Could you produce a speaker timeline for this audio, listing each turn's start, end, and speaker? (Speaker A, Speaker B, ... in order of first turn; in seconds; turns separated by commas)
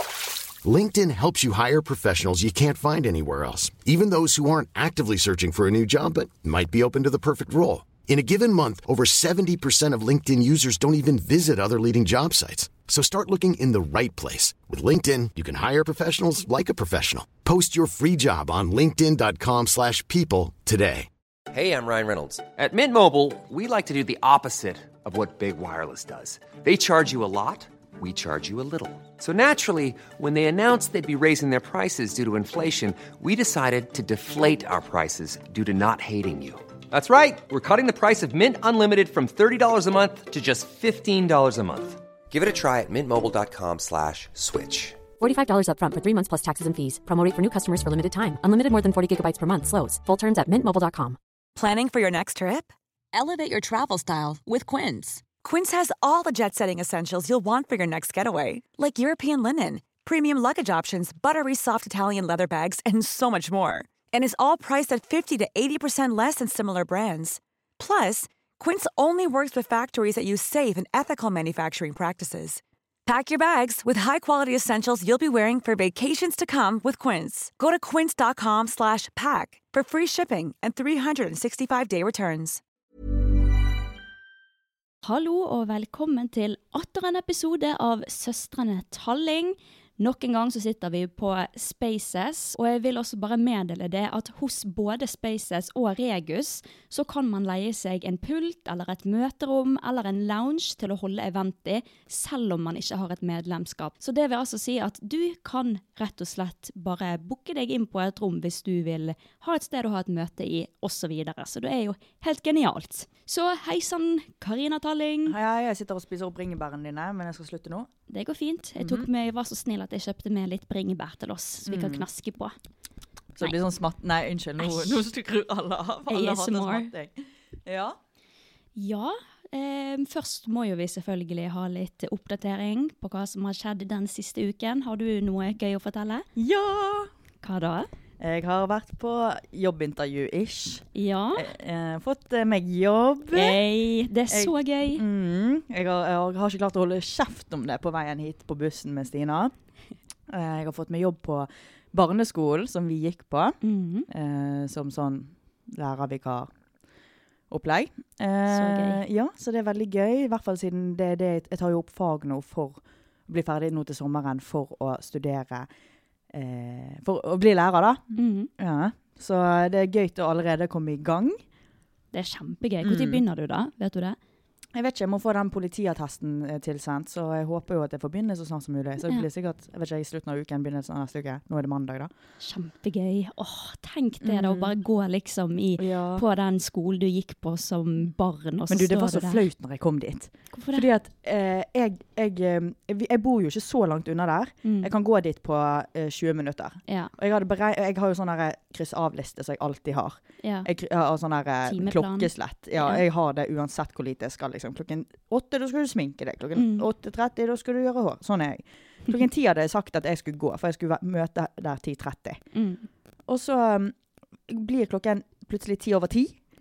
Speaker A: 0.6-21.1, Speaker B: 21.5-45.1, Speaker C: 45.2-51.2, Speaker D: 51.6-82.6, Speaker E: 85.0-115.4, Speaker F: 115.3-117.9, Speaker E: 118.1-122.5, Speaker F: 118.8-119.1, Speaker F: 121.7-122.0, Speaker F: 123.4-128.0, Speaker E: 124.6-125.0, Speaker E: 126.1-126.9, Speaker E: 128.8-136.3, Speaker F: 136.4-137.1, Speaker E: 137.4-137.9, Speaker F: 138.2-143.6, Speaker E: 140.9-141.5, Speaker E: 143.3-145.0, Speaker F: 144.3-149.5, Speaker F: 150.3-153.6, Speaker E: 153.6-154.1, Speaker F: 154.1-156.5, Speaker F: 157.5-165.7, Speaker E: 158.5-159.0, Speaker F: 166.3-171.4, Speaker E: 168.2-168.5, Speaker E: 172.1-174.2, Speaker F: 172.8-173.2, Speaker F: 174.7-182.1, Speaker E: 182.4-189.4, Speaker F: 184.2-184.7, Speaker F: 185.8-186.3, Speaker F: 188.7-212.4, Speaker E: 190.5-190.9, Speaker E: 194.6-194.9, Speaker E: 196.9-197.1, Speaker E: 200.4-200.7, Speaker E: 201.7-203.0, Speaker E: 206.6-206.8, Speaker E: 212.5-212.9, Speaker F: 213.3-214.0, Speaker F: 214.5-216.4